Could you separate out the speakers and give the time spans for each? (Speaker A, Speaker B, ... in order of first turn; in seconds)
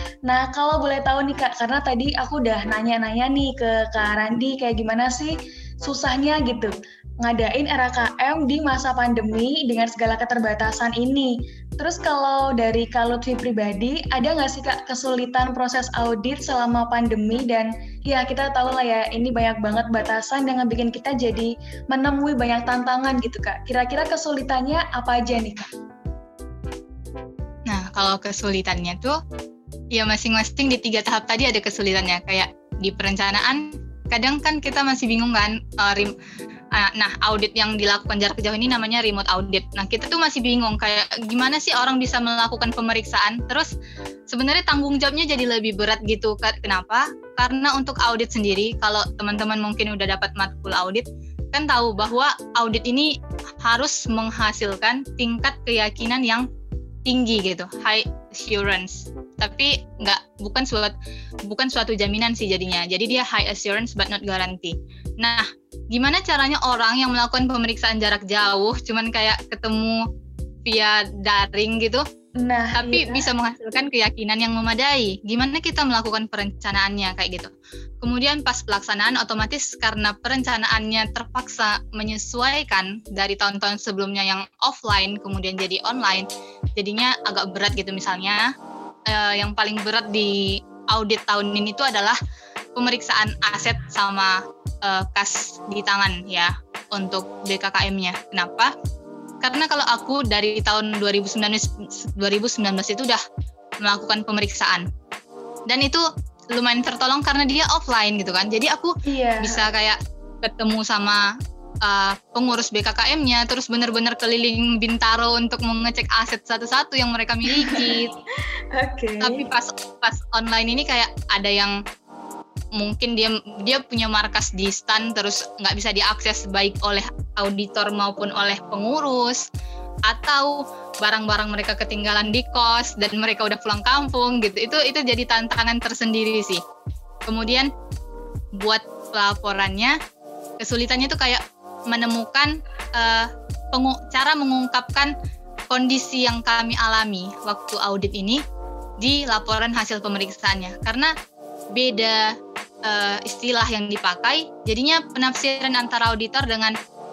Speaker A: 0.3-25.7, 72.4-73.3, 109.0-109.6, 117.5-118.0, 118.7-119.5
Speaker B: 27.7-29.2, 29.9-36.1, 36.7-43.7, 44.3-56.5, 57.0-60.9, 61.5-70.0, 70.7-72.0, 72.7-88.5, 89.1-92.2, 92.7-98.7, 99.4-103.2, 103.8-104.9, 105.7-111.2, 111.8-118.1, 119.2-121.8, 122.8-129.4, 130.1-136.6, 137.3-137.7, 138.6-140.0, 140.6-145.1, 145.7-148.4, 149.0-151.1, 151.7-152.3, 152.8-156.8